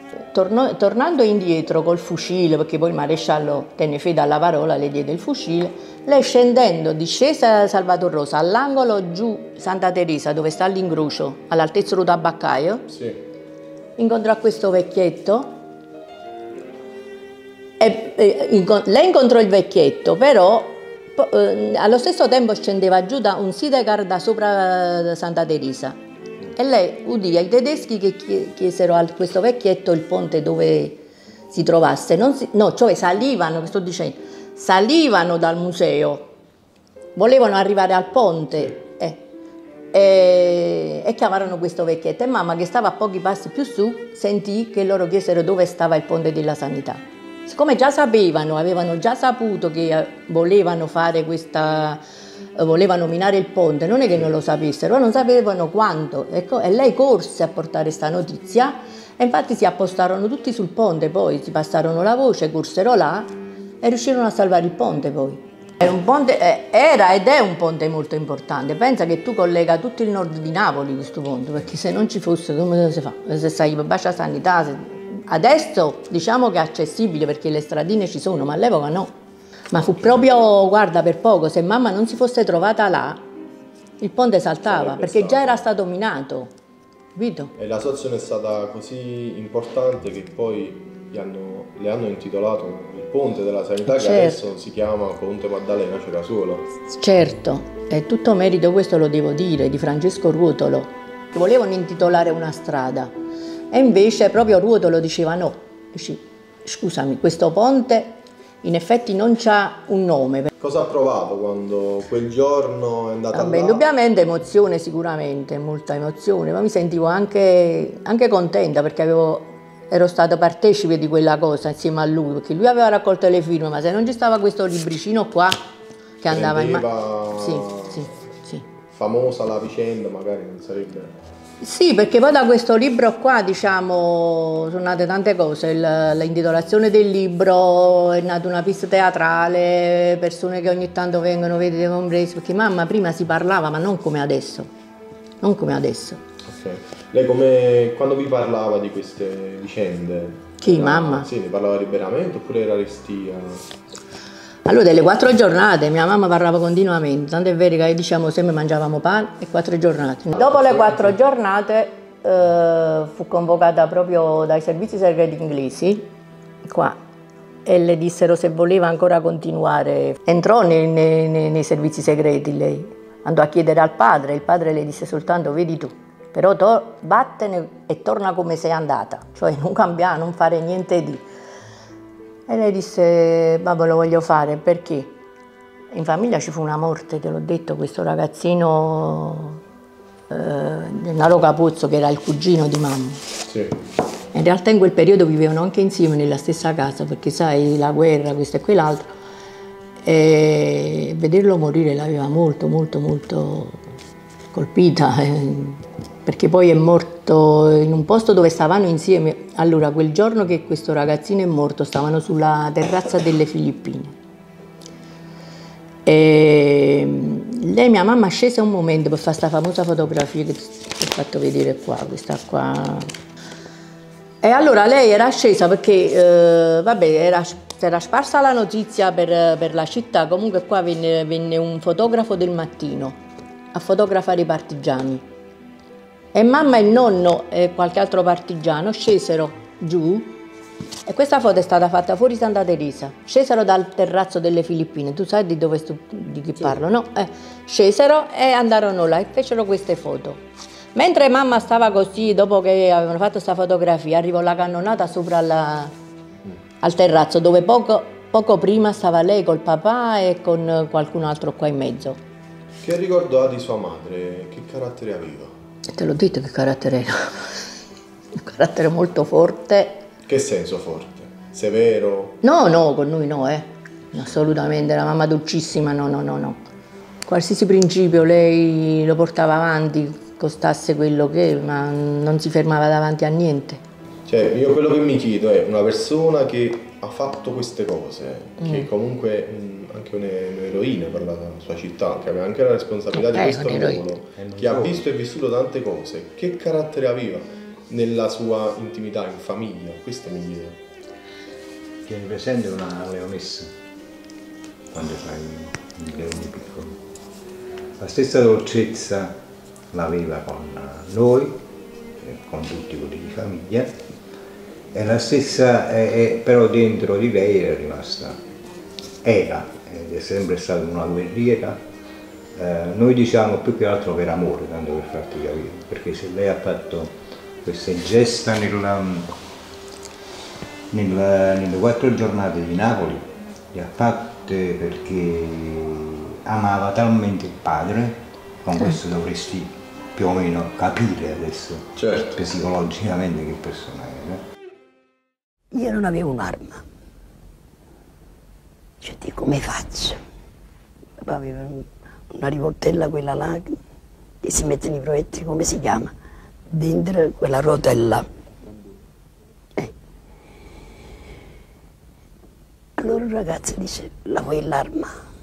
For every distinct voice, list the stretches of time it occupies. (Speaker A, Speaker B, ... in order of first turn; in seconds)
Speaker A: 0.3-12.9, 14.0-15.6, 17.8-25.9, 26.5-36.3, 37.1-39.2, 39.9-52.0, 52.5-79.1, 79.7-83.2, 84.0-86.5, 87.1-87.5, 93.9-94.4, 96.9-103.1, 103.7-110.5, 113.3-125.6, 126.2-128.6, 131.6-144.7, 145.4-146.2, 150.6-151.3, 154.6-166.1, 166.6-167.0, 167.6-181.2, 182.5-185.2, 185.9-189.6, 190.3-193.2, 194.3-199.1, 200.0-203.8, 204.5-214.1, 216.0-223.1, 224.4-233.2, 233.7-235.2, 236.3-240.3, 241.0-250.4, 250.9-255.9, 256.8-262.2, 265.9-267.6, 268.3-270.0, 272.4-276.6, 277.2-283.8, 293.2-294.0
Speaker B: 84.6-85.6, 87.6-96.6, 110.6-113.8, 126.3-128.0, 128.9-131.1, 146.5-153.7, 160.3-161.1, 193.5-193.7, 262.8-265.5, 270.2-272.4, 284.3-300.8, 341.9-342.4
Speaker C: 294.4-295.0, 302.0-303.7, 304.9-307.0, 308.0-309.4, 309.9-311.6, 312.2-314.0, 314.9-318.4, 319.2-321.8, 322.5-329.3, 330.9-344.4
Speaker D: 345.7-346.8, 349.0-350.2, 351.2-353.8, 354.4-356.1, 356.7-358.2, 363.0-365.1